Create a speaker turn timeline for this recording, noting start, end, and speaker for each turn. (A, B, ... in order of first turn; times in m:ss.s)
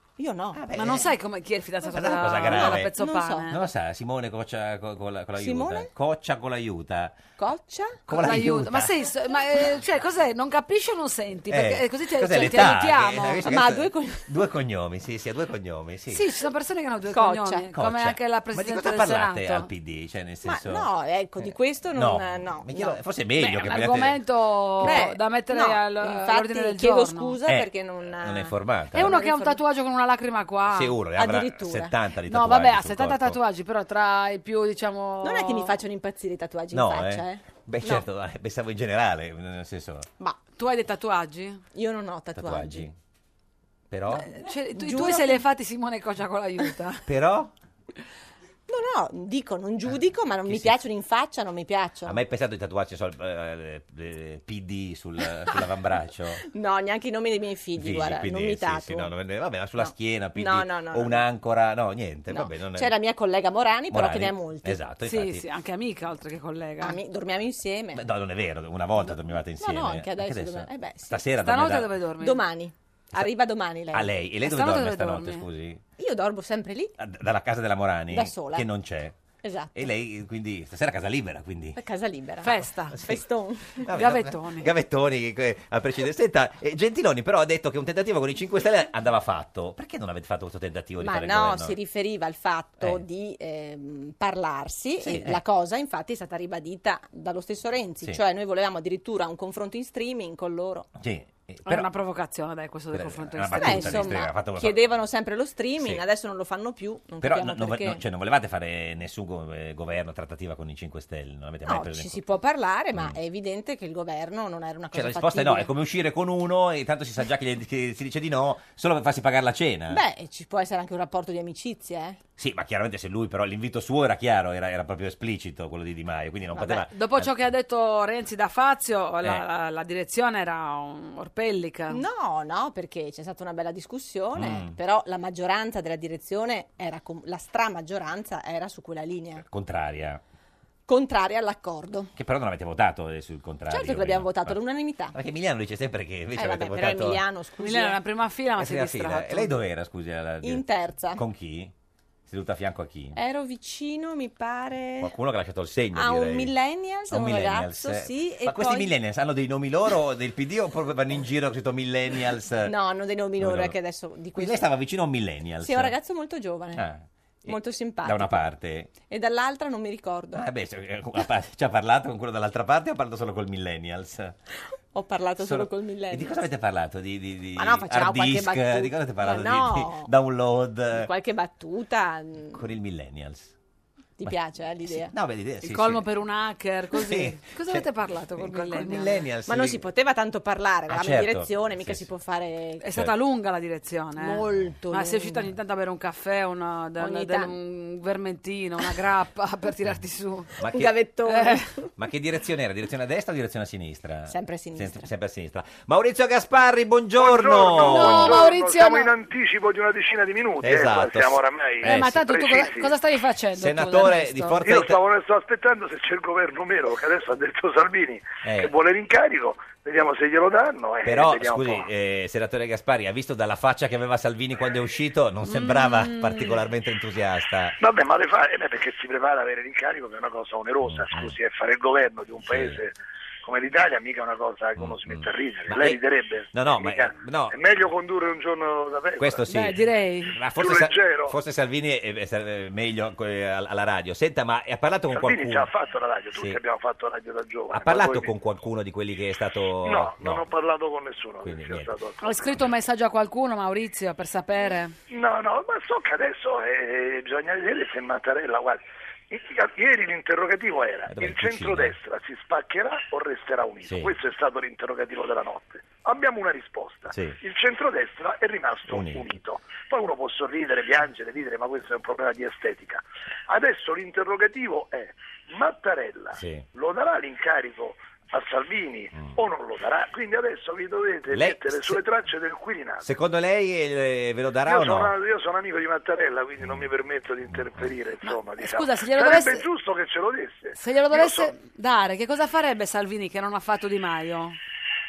0:00.2-0:00.6 A
0:00.5-0:01.1 B
0:00.7-0:03.6 C
0:01.9-0:02.9 B
0:02.2-0:03.5 A
0:03.5-0:07.2 B
0:05.4-0:05.9 A
0:07.4-0:08.0 A
0:08.1-0:08.9 B
0:08.1-0:13.4 C
0:11.5-0:16.2 B
0:13.4-0:14.3 A
0:16.1-0:19.7 C
0:17.1-0:17.7 A
0:17.7-0:20.9 B
0:20.4-0:23.0 A
0:21.5-0:24.2 B
0:23.4-0:27.4 C
0:24.8-0:29.6 A
0:27.5-0:29.2 B
0:28.9-0:30.9 C
0:30.7-0:33.4 B
0:31.2-0:31.9 A
0:32.3-0:35.7 C
0:35.2-0:38.0 A
0:36.7-0:40.1 B
0:40.4-0:41.6 C
0:41.7-0:42.9 A
0:42.3-0:42.9 B
0:43.9-0:44.3 B
0:44.1-0:47.0 C
0:44.7-0:45.4 A
0:47.0-0:47.5 B
0:48.7-0:52.2 A
0:50.5-0:50.8 B
0:52.1-0:56.4 B
0:56.4-0:59.1 A
0:57.8-1:02.9 B
0:59.8-1:01.2 A
1:02.3-1:04.8 A
1:03.9-1:05.4 B
1:05.0-1:07.0 C
1:06.8-1:08.0 A
1:07.9-1:11.9 B
1:09.0-1:11.2 A
1:11.4-1:12.4 C
1:12.2-1:14.1 A
1:13.9-1:15.8 B
1:14.4-1:15.4 C
1:16.0-1:17.0 A
1:17.0-1:19.1 B
1:18.1-1:18.7 A
1:19.4-1:19.9 A
1:19.8-1:21.8 B
1:21.8-1:23.9 A
1:22.4-1:23.0 C
1:22.9-1:23.2 B
1:23.8-1:31.7 B
1:23.9-1:24.7 C
1:31.0-1:40.9 A
1:35.0-1:35.4 B
1:41.0-1:41.9 B
1:41.6-1:44.2 C
1:42.9-1:44.8 B
1:43.5-1:48.0 A
1:47.2-1:52.2 B
1:51.6-1:55.7 A
1:54.9-2:00.0 B
1:59.9-2:02.2 A
2:02.4-2:07.3 B
2:06.7-2:12.0 C
2:11.9-2:19.4 A
2:14.4-2:14.8 B
2:19.4-2:20.2 B
2:20.9-2:22.1 A
2:22.2-2:24.6 B
2:23.7-2:25.2 A
2:25.1-2:27.2 B
2:26.4-2:28.0 A
2:27.6-2:29.5 C
2:28.6-2:30.6 B
2:30.4-2:31.2 A
2:31.2-2:31.7 B
2:32.3-2:33.2 B
2:33.2-2:35.1 A
2:35.0-2:36.5 B
2:35.9-2:38.9 A
2:37.1-2:42.7 B
2:42.6-2:44.7 A
2:43.4-2:43.7 B
2:44.4-2:45.9 B
2:45.6-2:46.8 A
2:46.8-2:48.9 B
2:47.4-2:48.4 A
2:49.0-2:50.4 A
2:50.3-2:54.3 B
2:54.9-2:56.4 A
2:55.4-3:01.1 B
2:57.6-3:00.1 A
3:00.9-3:02.6 A
3:02.5-3:03.5 B
3:04.2-3:05.1 A
3:04.9-3:06.0 B
3:05.6-3:09.1 C
3:06.9-3:07.8 B
3:08.4-3:09.8 B
3:09.5-3:12.9 A
3:10.9-3:12.0 B
3:12.8-3:20.5 C
3:14.2-3:15.5 A
3:17.0-3:17.5 A
3:20.6-3:20.9 B
3:20.6-3:21.9 A
3:21.3-3:21.6 C
3:22.0-3:28.4 B
3:24.3-3:25.1 A
3:27.2-3:32.9 D
3:27.8-3:29.1 C
3:30.6-3:32.2 B
3:31.8-3:34.6 C
3:33.6-3:35.0 B
3:34.6-3:41.9 D
3:38.4-3:38.7 B
3:41.0-3:47.8 B
3:45.4-3:46.6 C
3:47.8-3:59.4 D
3:50.8-3:51.3 B
3:52.4-3:52.8 B
3:54.8-3:56.0 B
3:56.5-3:57.6 B
3:59.2-3:59.8 B
3:59.5-4:00.4 C
4:00.3-4:05.7 B
4:00.5-4:01.4 D
4:05.1-4:08.3 D
4:07.7-4:10.4 B
4:09.8-4:12.4 D
4:11.4-4:11.9 B
4:12.2-4:14.9 C
4:15.1-4:43.1 D
4:21.1-4:21.9 B
4:23.9-4:24.1 B
4:27.1-4:27.4 B
4:28.9-4:29.3 B
4:36.3-4:36.7 B
4:41.3-4:42.0 B
4:43.0-4:45.1 B
4:44.6-4:51.5 D
4:46.6-4:46.9 B
4:47.5-4:47.9 B
4:48.2-4:49.6 C
4:50.7-4:54.6 C